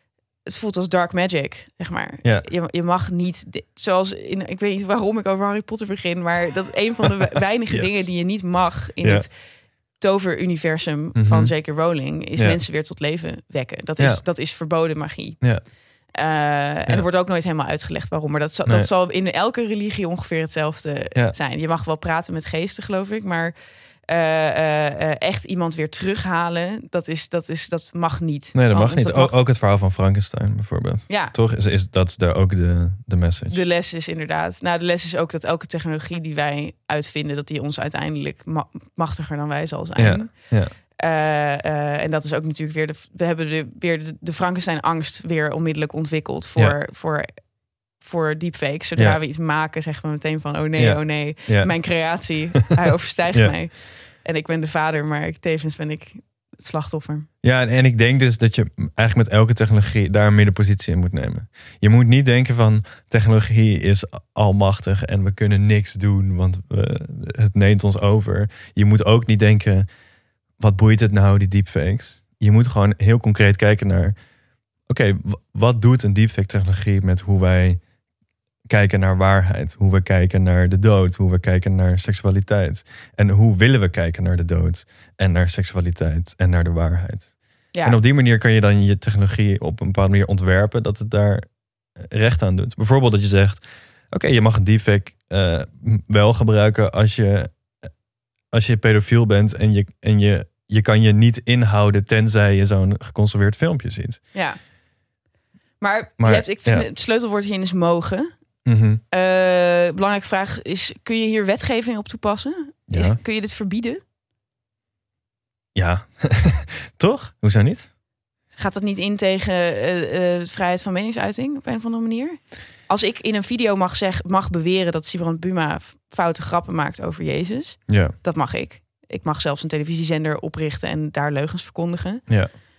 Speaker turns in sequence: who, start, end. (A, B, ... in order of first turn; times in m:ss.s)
0:00.4-0:29.4 A
0:07.7-0:08.3 B
0:09.0-0:09.3 B
0:11.1-0:11.8 B
0:12.3-0:12.6 B
0:14.0-0:14.3 B
0:28.5-0:33.6 B
0:31.1-0:31.3 A
0:33.5-0:57.3 A
0:40.0-0:40.7 B
0:50.8-0:52.6 B
0:57.4-1:09.9 B
1:10.6-1:14.2 B
1:14.9-1:17.8 B
1:18.7-1:37.7 B
1:38.5-1:44.2 B
1:44.3-1:44.6 A
1:45.8-1:48.3 A
1:46.2-1:46.9 B
1:48.6-1:49.0 B
1:49.1-1:54.0 A
1:52.9-1:53.2 B
1:55.7-1:57.9 B
1:58.5-2:12.3 A
2:07.9-2:08.1 B